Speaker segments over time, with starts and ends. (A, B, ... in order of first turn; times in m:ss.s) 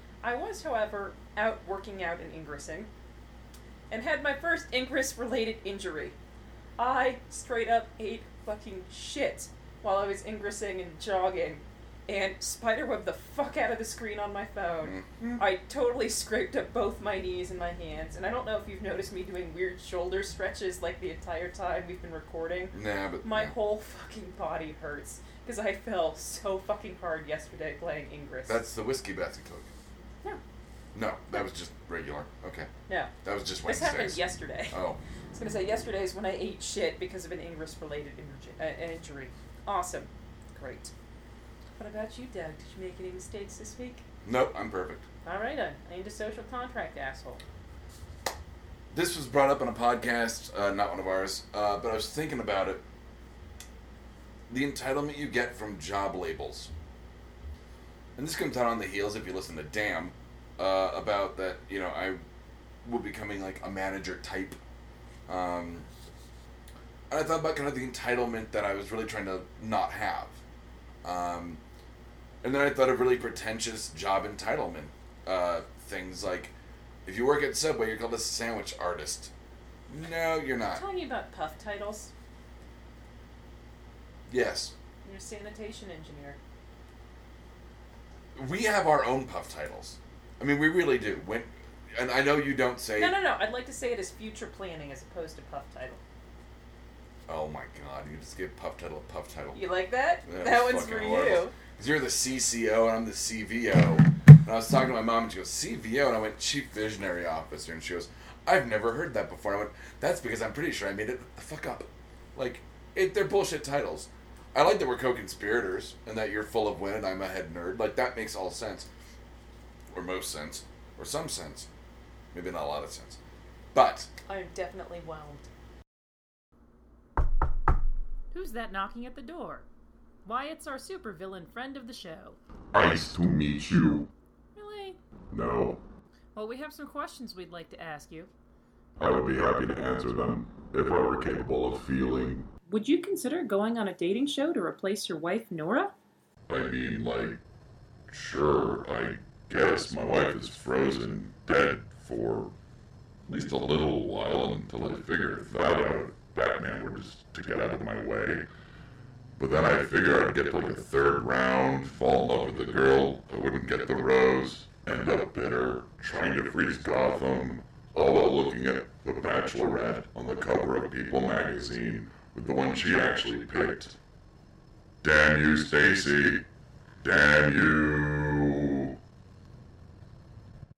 0:00.2-0:02.9 A
0:03.9-0:06.1 A
0:06.8-0:28.6 A
0:14.8-0:15.4 B
0:22.7-0:23.5 B
0:28.5-0:29.7 B
0:30.9-0:32.7 B
0:32.9-0:33.1 A
0:33.2-0:35.0 B
0:33.6-0:34.8 A
0:35.3-0:40.9 A
0:41.8-0:44.0 A
0:44.2-0:45.0 B
0:45.2-0:47.4 A
0:48.9-0:52.8 B
0:54.5-0:56.7 B
0:58.2-1:02.2 B
1:02.8-1:04.6 B
1:05.3-1:05.9 B
1:07.1-1:10.4 B
1:11.0-1:11.6 B
1:12.4-1:16.5 B
1:17.0-1:19.3 B
1:19.9-1:20.8 B
1:20.7-1:22.1 A
1:24.3-1:24.7 B
1:25.0-1:26.4 A
1:28.3-1:33.1 B
1:33.0-1:36.0 A
1:37.3-1:39.6 B
1:39.5-1:41.5 A
1:40.2-1:58.9 B
1:59.9-2:01.7 B
2:02.3-2:03.2 B
2:03.7-2:04.1 B
2:04.3-2:05.4 A
2:08.3-2:09.6 A
2:10.2-2:12.4 A
2:12.7-2:14.1 C
2:14.6-2:15.0 A
2:15.3-2:15.8 C
2:16.3-2:18.3 A
2:19.0-2:22.5 C
2:22.7-2:25.9 A
2:26.5-2:27.4 C
2:28.1-2:32.5 C
2:33.3-2:38.5 C
2:39.4-2:54.0 C
2:55.0-2:56.4 C
2:57.0-2:59.0 C